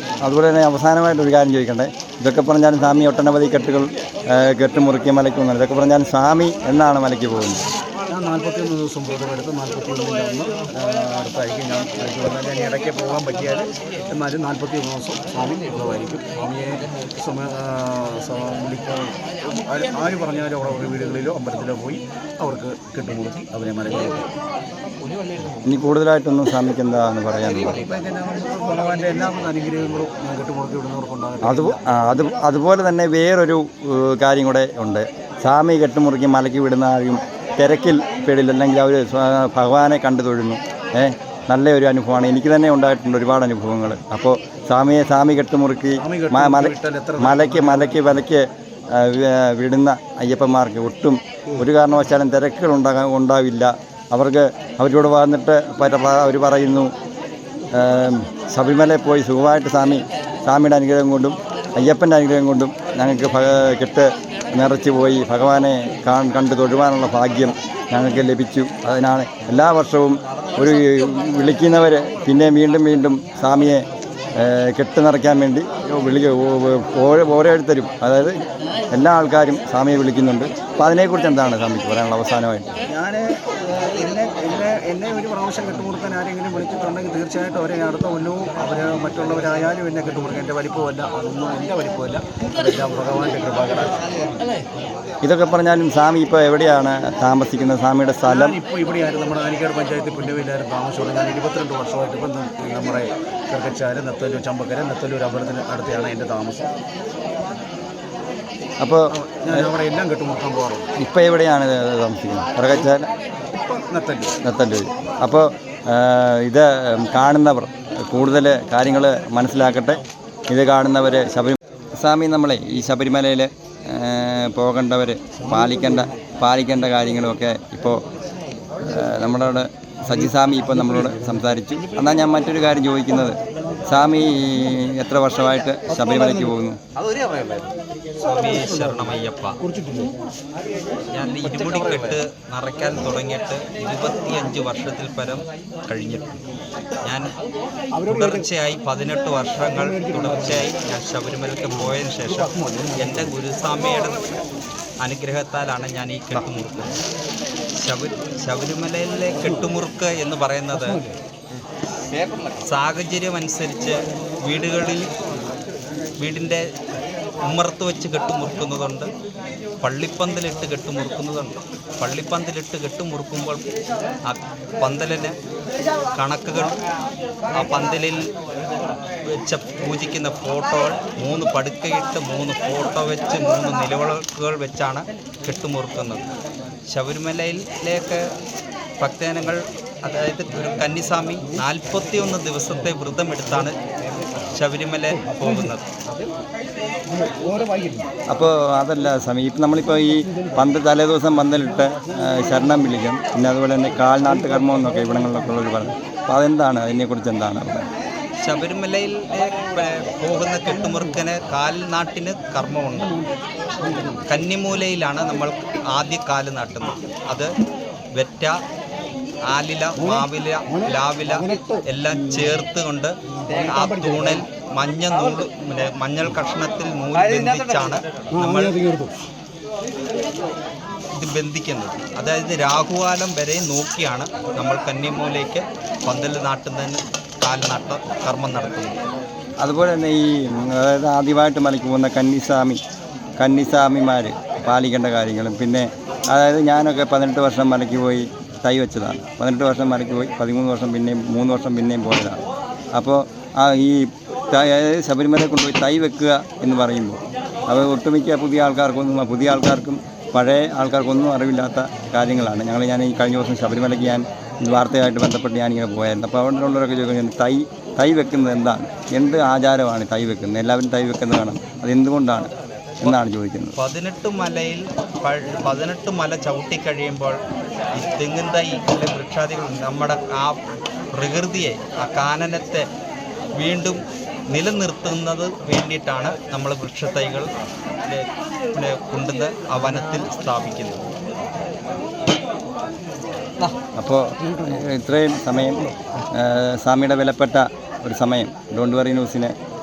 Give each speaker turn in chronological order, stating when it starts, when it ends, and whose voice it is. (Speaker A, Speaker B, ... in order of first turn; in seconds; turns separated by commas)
Speaker A: 0.2-7.6, Speaker B: 8.1-24.3, Speaker A: 25.6-27.8, Speaker B: 27.5-31.8, Speaker A: 31.4-56.9, Speaker B: 46.0-48.1, Speaker A: 57.7-73.8, Speaker A: 74.4-78.4, Speaker A: 78.9-82.8, Speaker B: 82.9-94.4, Speaker A: 95.2-98.6, Speaker B: 98.3-106.7, Speaker A: 108.8-109.7, Speaker B: 109.1-110.9, Speaker A: 111.0-113.1, Speaker B: 113.5-114.3, Speaker A: 114.4-128.0, Speaker B: 125.4-126.2, Speaker A: 128.8-136.8, Speaker B: 130.1-132.1, Speaker B: 135.9-140.1, Speaker C: 138.2-139.6, Speaker C: 141.1-146.4, Speaker B: 141.4-142.2, Speaker C: 147.0-147.3, Speaker B: 147.9-148.5, Speaker C: 148.1-154.3, Speaker B: 149.7-150.7, Speaker B: 152.2-153.3, Speaker C: 155.0-156.9, Speaker C: 157.8-161.0, Speaker B: 160.7-161.1, Speaker C: 162.6-165.1, Speaker C: 166.2-166.7, Speaker C: 167.4-169.1, Speaker C: 169.8-173.6, Speaker C: 174.3-175.3, Speaker C: 176.2-176.8, Speaker C: 177.5-178.2, Speaker C: 179.3-186.2, Speaker C: 186.9-188.2, Speaker C: 189.0-193.8, Speaker C: 194.5-195.9, Speaker B: 195.2-195.7, Speaker B: 197.1-198.1, Speaker A: 198.3-207.9, Speaker B: 200.3-200.6, Speaker C: 208.4-213.2, Speaker B: 212.9-213.3, Speaker B: 213.8-214.2, Speaker C: 214.3-217.5, Speaker C: 218.2-218.6, Speaker C: 219.5-228.8, Speaker B: 220.0-222.6, Speaker B: 223.4-224.4, Speaker B: 228.3-229.2, Speaker C: 231.2-239.0, Speaker A: 239.6-242.8, Speaker A: 243.4-252.4, Speaker A: 252.9-272.5, Speaker A: 273.0-273.8, Speaker C: 273.8-277.4, Speaker C: 277.9-280.6, Speaker C: 281.1-282.9, Speaker C: 283.6-287.5, Speaker C: 288.0-291.0, Speaker A: 294.0-299.6